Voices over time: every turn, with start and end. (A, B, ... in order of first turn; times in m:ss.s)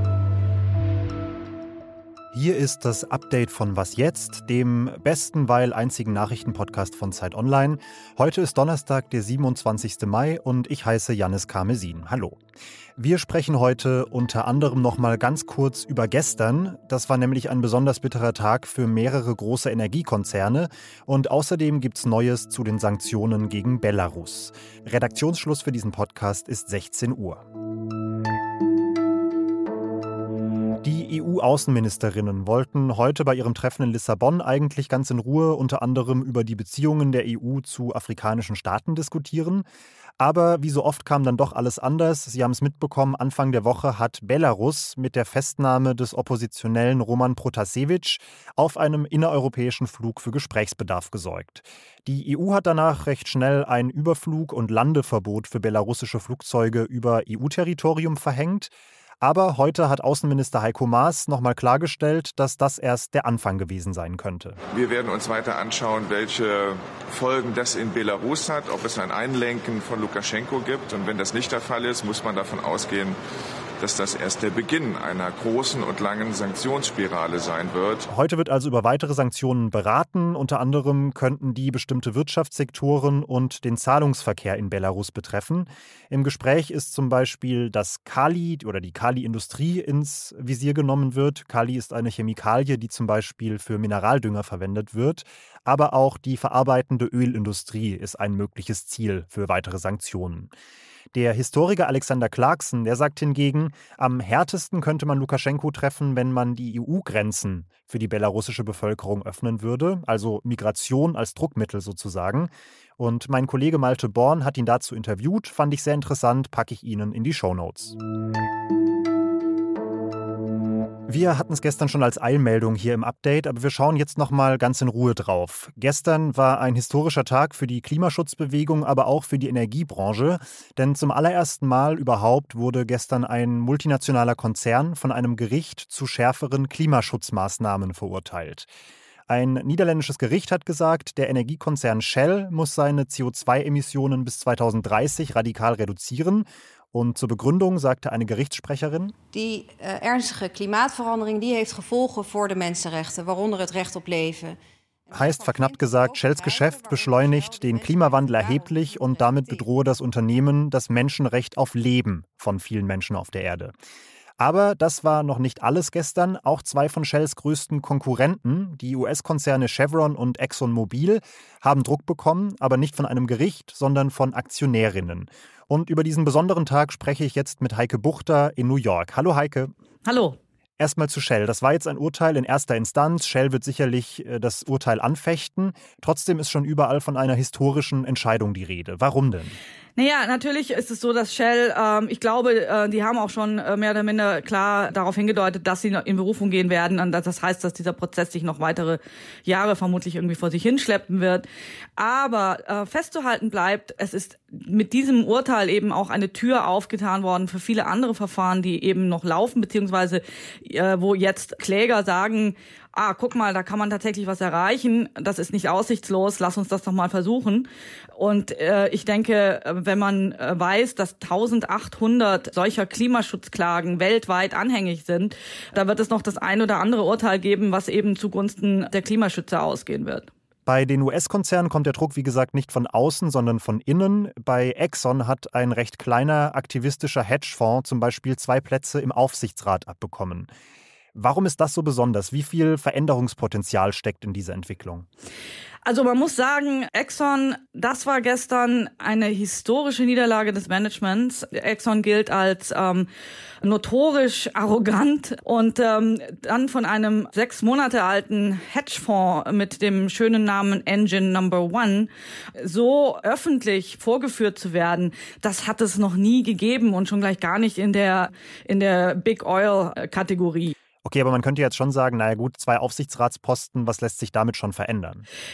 0:02.3-0:12.4 A
0:13.0-0:27.4 A
0:30.8-0:39.6 A
0:40.2-0:58.7 A
0:59.2-1:04.6 A
1:04.7-1:13.2 B
1:13.8-1:18.1 B
1:18.1-1:40.5 A
1:41.1-1:57.9 A
2:01.1-2:18.7 A
2:19.3-2:29.1 A
2:29.3-2:39.7 C
2:35.1-2:43.7 A
2:44.4-2:59.7 A
3:00.0-3:00.4 D
3:00.8-3:09.6 A
3:10.0-3:21.4 D
3:22.0-3:50.3 D
3:50.6-4:00.5 A
4:01.1-4:05.0 A
4:05.8-4:13.1 D
4:13.6-4:30.7 D
4:31.0-4:35.2 A